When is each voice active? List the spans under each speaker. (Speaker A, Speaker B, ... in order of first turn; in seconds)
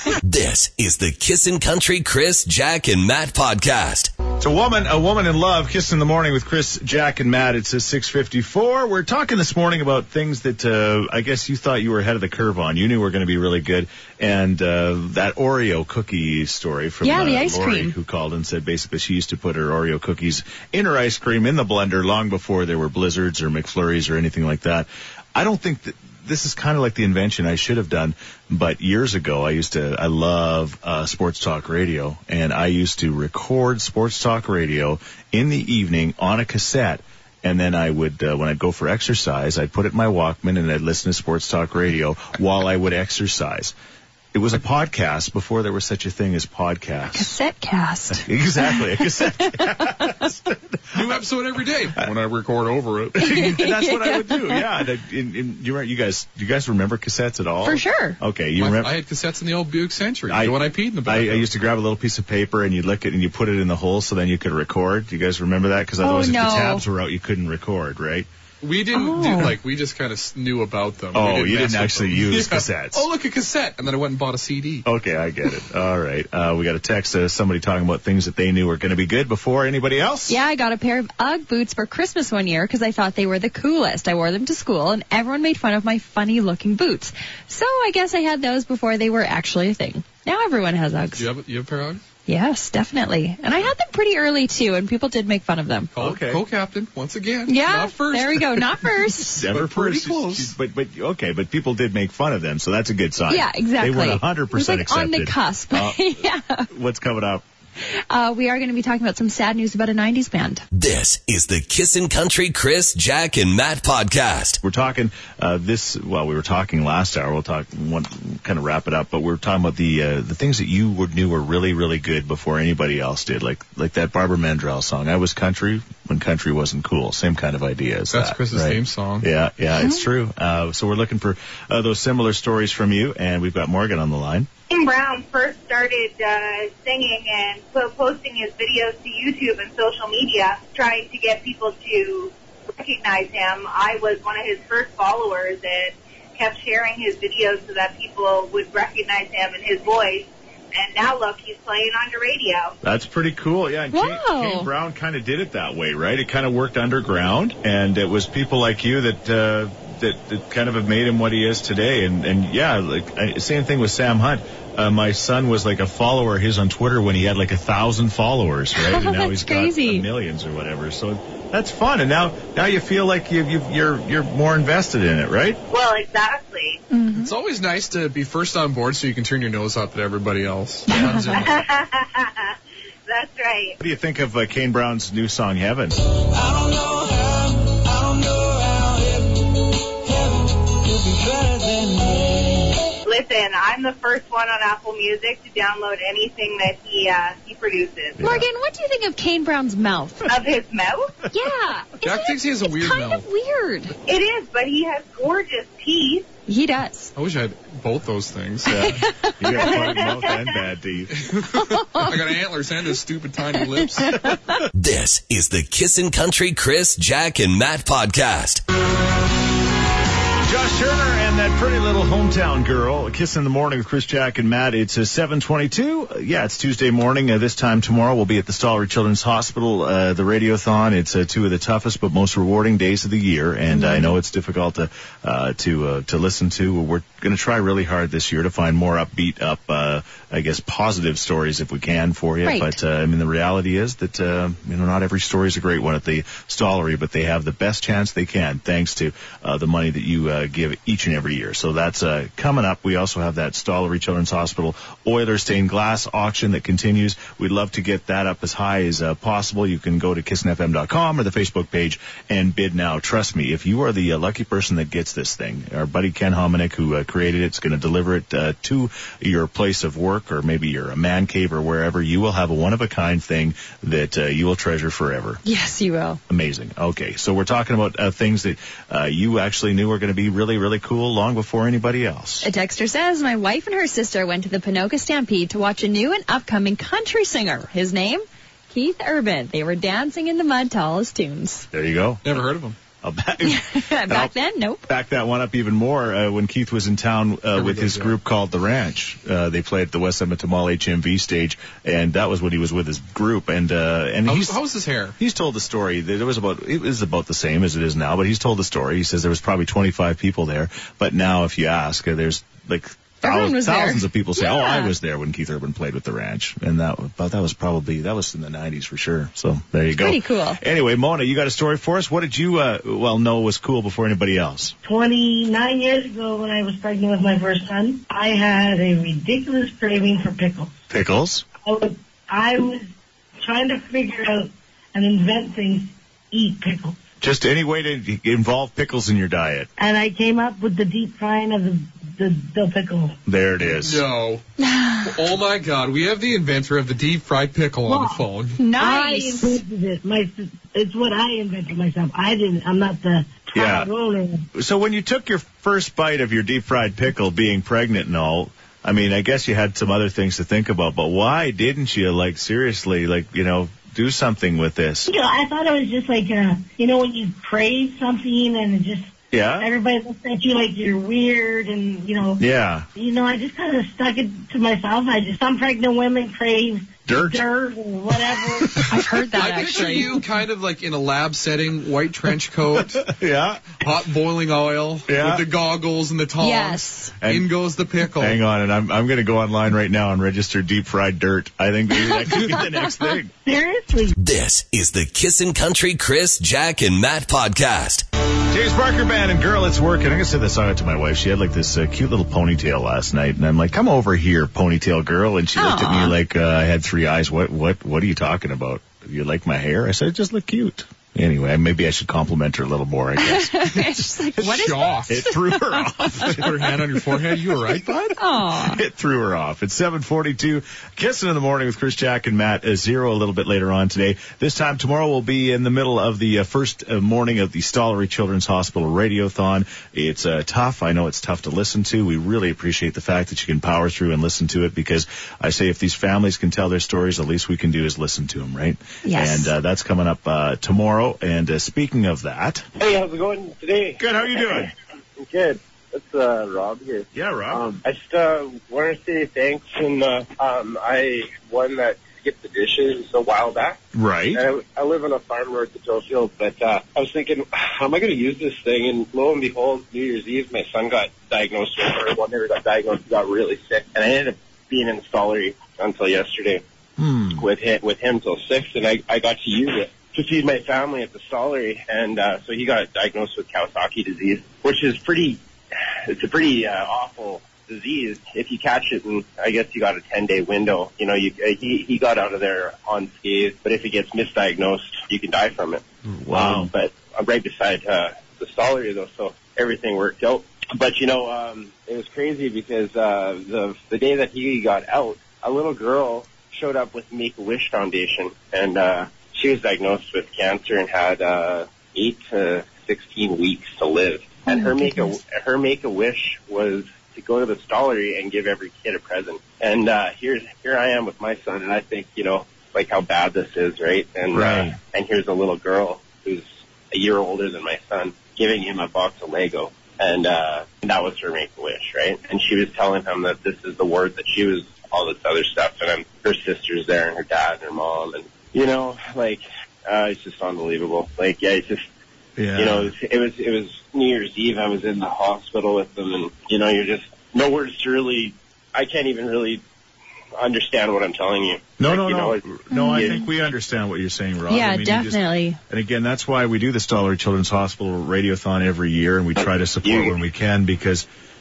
Speaker A: 0.2-4.1, 110.7-114.6, 214.7-218.6, 394.2-398.0
Speaker B: 4.4-43.7, 44.3-47.3, 48.1-51.0, 53.1-59.0, 60.3-68.3, 71.1-73.0, 74.8-80.4, 96.0-96.4, 99.3-106.0, 106.7-107.4, 114.6-134.5, 152.8-175.6, 180.9-181.4, 183.8-186.0, 198.2-198.4, 208.6-211.2, 220.4-275.4, 276.3-282.4, 291.7-292.5, 293.0-294.3, 294.9-304.6, 305.2-324.8, 330.9-331.4, 337.2-339.7, 343.2-344.0, 353.5-353.9, 354.5-365.1, 369.3-369.7, 372.4-372.9, 377.1-377.4, 378.6-378.9, 383.0-383.7, 385.1-385.4, 387.2-387.5, 388.2-393.3, 398.5-414.5, 415.1-417.2, 418.5-442.6, 444.0-444.7, 447.1-447.6, 453.9-454.4, 467.0-467.4, 486.1-486.7, 514.3-514.8, 532.4-532.9, 541.8-551.1
Speaker C: 17.0-17.9, 47.1-50.1, 53.2-54.6, 57.6-58.2, 66.0-66.8, 68.9-69.5, 80.3-91.3, 92.2-95.9, 97.5-99.4, 103.3-106.7, 108.1-110.6, 129.8-130.0, 153.9-154.7, 168.8-170.1, 176.9-177.3, 180.9-181.3, 198.2-200.3, 201.3-203.9, 206.5-207.1, 208.8-210.1, 211.5-212.1, 213.9-214.5, 233.7-234.2, 242.4-242.8, 275.4-276.2, 282.4-291.7, 293.4-294.9, 313.2-314.9, 320.0-320.6, 344.6-345.1, 348.6-349.6, 378.9-380.1, 386.4-387.1, 392.1-392.9, 405.6-406.1, 413.2-416.5, 418.2-418.8, 439.0-439.5, 542.7-543.2, 544.5-545.6
Speaker D: 50.9-53.3, 58.5-61.5, 68.6-74.9, 91.2-92.0, 95.9-99.0, 99.5-100.5, 128.1-129.3, 177.2-181.6, 202.0-203.2, 207.1-208.8, 211.2-214.2, 292.2-292.8, 297.5-298.1, 304.2-305.1, 343.7-344.4, 345.0-348.6, 379.3-383.1, 383.8-388.4, 414.4-415.3, 416.2-418.2
Speaker E: 134.7-152.8, 175.7-176.8, 181.3-182.5, 183.1-183.8, 193.0-198.2, 200.3-201.2, 204.1-206.3, 209.7-210.0
Speaker F: 186.8-187.2, 191.4-192.0, 324.8-330.8, 331.6-332.9, 333.4-337.0, 339.8-343.2, 347.9-354.5, 365.1-372.4, 373.0-378.9, 393.4-394.1
Speaker G: 442.8-453.8, 454.3-466.6, 467.3-475.4, 476.0-531.8, 532.6-539.6, 540.4-543.2, 549.4-550.1